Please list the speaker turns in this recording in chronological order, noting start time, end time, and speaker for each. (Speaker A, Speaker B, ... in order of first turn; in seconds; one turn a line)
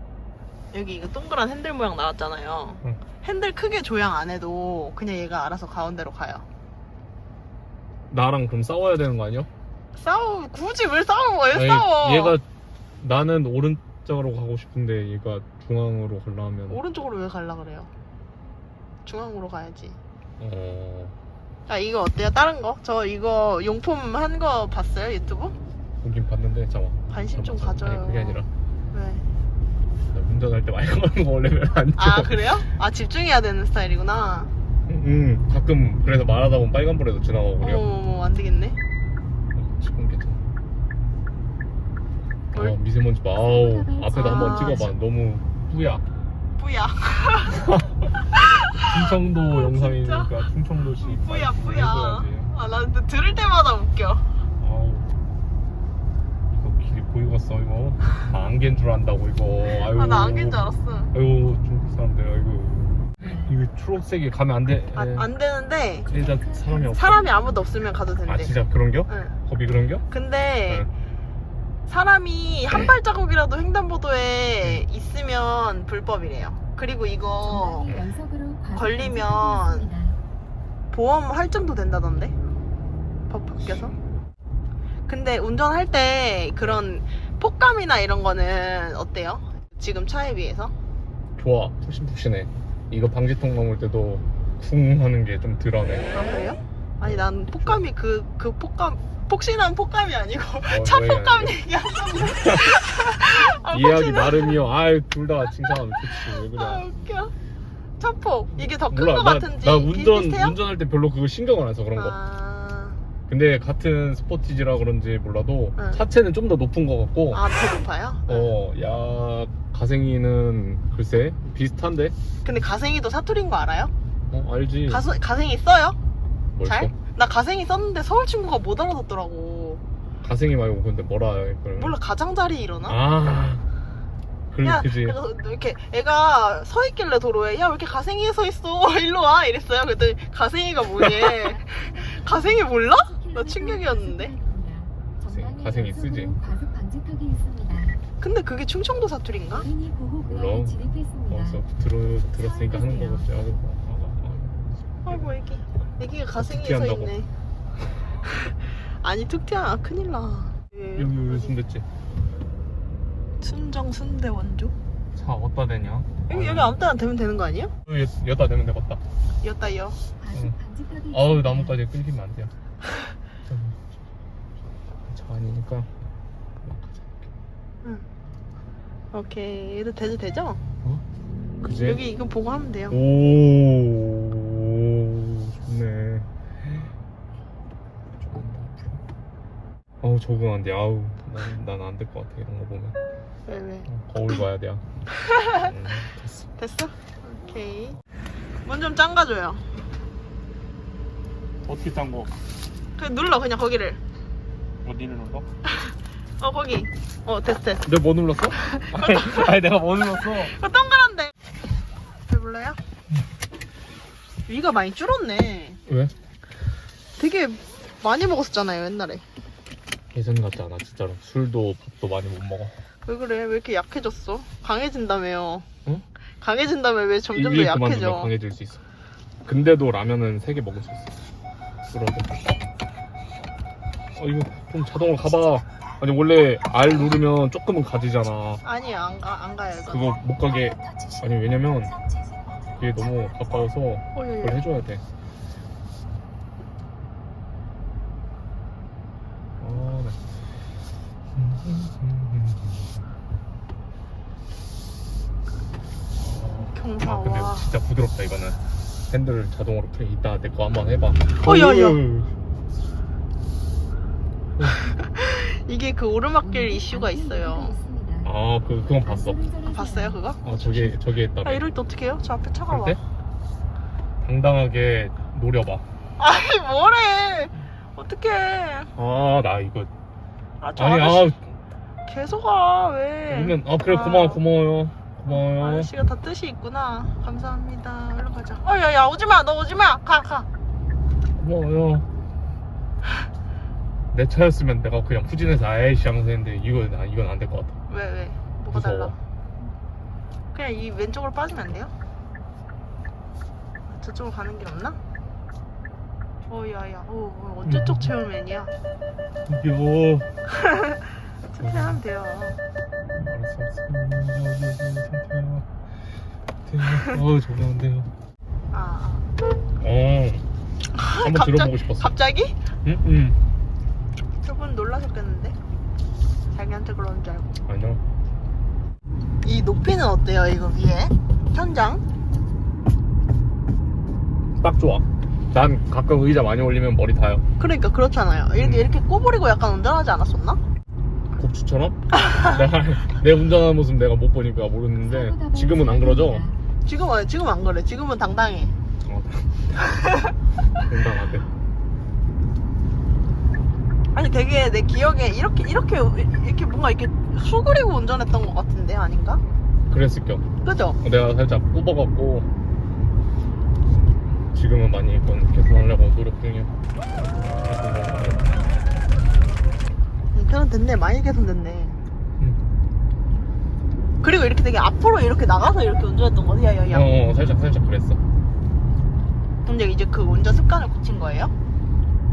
Speaker A: 0.7-6.5
Speaker B: 8.1-9.5
Speaker A: 9.9-12.4
Speaker B: 11.5-12.4
Speaker B: 13.0-16.8
Speaker A: 16.7-17.9
Speaker A: 19.1-20.0
Speaker B: 20.4-21.1
Speaker A: 21.7-25.5
Speaker B: 26.0-28.5
Speaker A: 27.1-29.2
Speaker B: 30.1-32.6
Speaker A: 31.9-34.5
Speaker B: 34.9-37.8
Speaker A: 37.6-38.8
Speaker B: 39.5-40.4
Speaker B: 42.5-46.0
Speaker C: 43.3-44.9
Speaker A: 44.1-44.9
Speaker A: 46.6-47.6
Speaker B: 47.5-48.2
Speaker A: 48.3-50.4
Speaker B: 48.8-52.5
Speaker A: 51.0-54.3
Speaker B: 54.6-55.1
Speaker B: 56.5-65.3
Speaker A: 59.8-61.1
Speaker C: 63.2-63.5
Speaker A: 64.9-66.1
Speaker C: 66.0-67.9
Speaker B: 66.1-67.3
Speaker A: 66.9-68.5
Speaker B: 68.3-70.0
Speaker A: 69.1-69.4
Speaker A: 70.1-70.9
Speaker A: 71.9-77.9
Speaker C: 77.4-80.2
Speaker A: 78.7-79.9
Speaker A: 80.9-82.3
Speaker A: 83.3-83.9
Speaker B: 83.6-84.0
Speaker A: 85.1-90.7
Speaker B: 91.4-96.3
Speaker A: 96.1-104.7
Speaker B: 97.0-97.8
Speaker B: 100.7-101.6
Speaker B: 102.3-102.8
Speaker B: 103.7-106.9
Speaker A: 106.0-107.3
Speaker A: 108.0-110.5
Speaker B: 108.7-112.2
Speaker A: 112.0-113.0
Speaker B: 113.3-117.4
Speaker A: 115.8-116.0
Speaker A: 117.3-118.5
Speaker B: 118.3-122.2
Speaker A: 122.4-123.9
Speaker B: 124.3-125.1
Speaker A: 124.9-126.0
Speaker B: 126.5-126.9
Speaker A: 126.6-129.8
Speaker B: 130.2-132.0
Speaker A: 131.8-133.0
Speaker B: 132.9-133.7
Speaker B: 134.5-135.2
Speaker A: 134.6-144.3
Speaker C: 141.2-148.0
Speaker B: 145.3-146.3
Speaker A: 148.2-149.7
Speaker C: 149.5-151.6
Speaker B: 150.3-155.3
Speaker C: 152.3-153.3
Speaker A: 155.0-157.3
Speaker B: 156.3-157.1
Speaker A: 158.2-161.6
Speaker B: 160.9-161.9
Speaker A: 163.4-164.7
Speaker B: 165.1-166.8
Speaker A: 166.3-167.7
Speaker B: 167.8-169.0
Speaker A: 169.4-170.0
Speaker C: 170.2-171.8
Speaker B: 171.1-172.5
Speaker B: 173.5-173.9
Speaker B: 175.1-175.9
Speaker B: 176.6-177.3
Speaker A: 179.1-180.6
Speaker B: 181.6-182.0
Speaker A: 181.7-183.0
Speaker B: 182.9-186.9
Speaker B: 188.2-189.0
Speaker B: 190.0-193.0
Speaker A: 193.4-193.9
Speaker B: 193.9-194.8
Speaker A: 195.3-195.7
Speaker B: 195.5-196.5
Speaker A: 196.6-198.0
Speaker A: 198.6-199.7
Speaker B: 201.6-202.3
Speaker A: 203.0-204.0
Speaker B: 204.8-205.4
Speaker A: 205.7-207.9
Speaker B: 207.8-210.5
Speaker A: 208.5-209.5
Speaker A: 210.4-211.3
Speaker A: 212.3-212.8
Speaker A: 214.5-215.8
Speaker B: 215.8-216.1
Speaker A: 217.2-219.2
Speaker B: 220.1-222.8
Speaker A: 223.1-225.7
Speaker A: 226.4-228.3
Speaker B: 227.3-228.8
Speaker B: 229.4-231.1
Speaker B: 231.9-232.5
Speaker B: 234.1-238.6
Speaker A: 238.6-240.2
Speaker B: 239.9-242.0
Speaker B: 242.7-245.0
Speaker A: 244.1-244.6
Speaker B: 249.6-250.2
Speaker B: 251.3-253.1
Speaker B: 256.2-262.3
Speaker A: 256.7-257.7
Speaker A: 261.3-262.0
Speaker A: 264.7-267.8
Speaker C: 266.4-270.4
Speaker B: 268.2-269.4
Speaker A: 269.7-270.9
Speaker B: 270.4-271.6
Speaker A: 271.4-273.0
Speaker B: 272.7-273.0
Speaker B: 274.2-275.9
Speaker A: 276.2-278.9
Speaker B: 278.9-279.9
Speaker A: 280.6-281.3
Speaker B: 280.8-281.4
Speaker A: 282.0-284.4
Speaker B: 283.3-285.9
Speaker A: 285.3-290.5
Speaker B: 291.4-292.1
Speaker B: 294.1-297.8
Speaker A: 297.9-299.2
Speaker B: 298.7-299.1
Speaker A: 300.5-301.9
Speaker A: 303.9-305.0
Speaker A: 306.4-308.7
Speaker B: 307.6-308.1
Speaker B: 309.5-310.3
Speaker A: 310.5-312.6
Speaker B: 311.6-312.0
Speaker B: 313.1-315.7
Speaker B: 316.6-318.1
Speaker A: 318.7-319.3
Speaker B: 319.8-320.4
Speaker A: 320.9-322.6
Speaker B: 321.2-322.1
Speaker B: 322.8-323.4
Speaker A: 324.4-325.6
Speaker A: 326.5-327.6
Speaker B: 327.6-328.0
Speaker A: 329.4-332.0
Speaker B: 334.6-337.4
Speaker A: 337.6-340.6
Speaker B: 338.6-338.9
Speaker B: 341.3-346.4
Speaker A: 342.1-342.6
Speaker C: 345.0-346.6
Speaker A: 346.8-348.7
Speaker B: 349.0-350.2
Speaker A: 350.0-350.3
Speaker B: 350.9-351.5
Speaker A: 354.1-359.4
Speaker B: 359.9-360.4
Speaker A: 360.6-361.0
Speaker B: 361.0-362.5
Speaker B: 364.4-366.8
Speaker B: 367.4-368.6
Speaker A: 370.3-372.0
Speaker A: 374.2-377.1
Speaker B: 376.9-378.2
Speaker A: 379.6-381.5